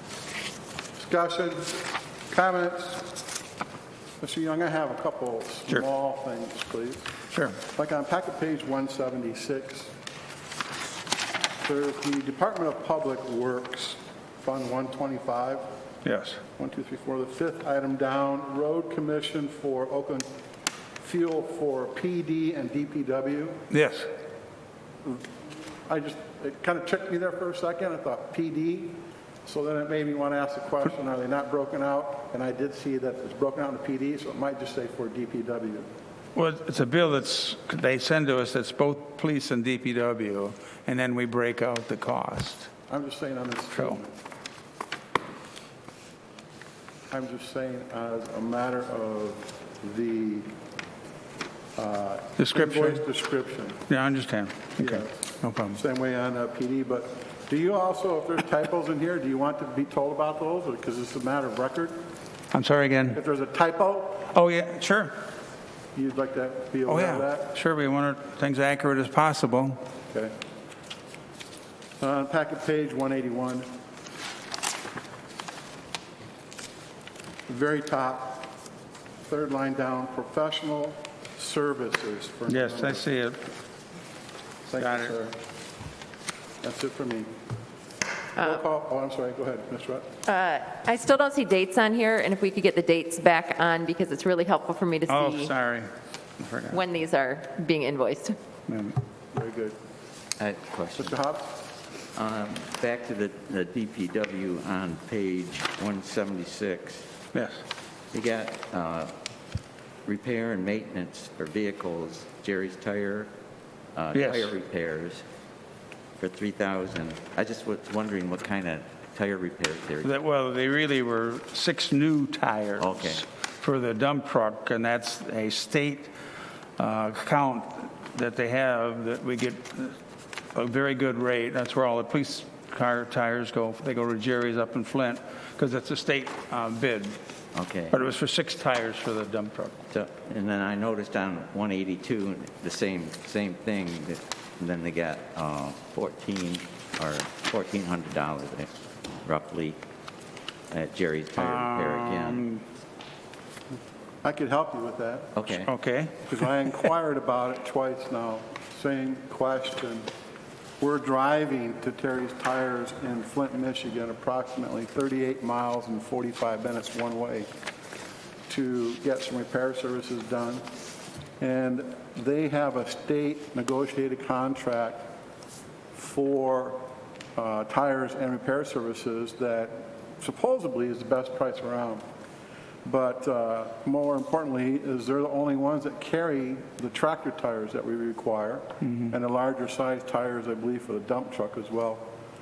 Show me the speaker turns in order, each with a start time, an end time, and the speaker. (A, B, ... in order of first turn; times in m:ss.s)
0:01.0-0:03.1 A
0:04.2-0:07.1 A
0:07.7-0:09.9 A
0:11.6-0:15.7 A
0:16.1-0:16.4 B
0:16.6-0:20.3 A
0:21.0-0:23.6 A
0:23.7-0:24.1 B
0:25.0-0:25.3 A
0:25.9-0:35.9 A
0:36.4-0:42.6 B
0:42.9-0:44.1 A
0:47.1-0:50.5 A
0:51.8-0:53.8 A
0:52.4-0:53.0 B
0:53.9-0:55.8 B
0:54.8-1:02.0 A
1:02.5-1:03.2 B
1:03.1-1:04.3 A
1:04.3-1:05.1 B
1:06.0-1:07.6 A
1:06.9-1:09.8 B
1:12.0-1:13.7 A
1:17.5-1:18.5 A
1:19.3-1:23.2 A
1:22.5-1:23.4 B
1:24.6-1:25.4 A
1:24.8-1:25.1 B
1:26.6-1:27.3 A
1:28.4-1:28.6 C
1:28.4-1:30.1 A
1:30.3-1:35.5 C
1:35.1-1:35.9 B
1:36.4-1:36.8 B
1:36.7-1:38.4 C
1:39.3-1:39.8 A
1:40.4-1:41.2 D
1:41.0-1:41.5 A
1:42.2-1:47.0 D
1:48.1-1:49.1 D
1:50.1-1:53.3 D
1:54.0-1:55.2 D
1:54.2-1:54.5 B
1:56.2-2:00.1 D
2:00.1-2:06.1 B
2:02.8-2:03.2 D
2:06.8-2:09.9 B
2:10.6-2:17.2 B
2:17.5-2:18.0 D
2:17.9-2:19.8 B
2:19.9-2:28.7 D
2:29.2-2:29.8 D
2:30.7-2:32.5 D
2:31.7-2:32.1 B
2:34.2-2:35.6 A
2:35.4-2:35.7 D
2:35.7-2:36.1 B
2:36.2-2:40.1 A
2:40.8-2:47.5 A
2:48.5-2:50.6 A
2:51.4-2:55.1 A
2:55.9-2:56.8 A
2:57.4-3:02.0 A
3:02.8-3:12.1 A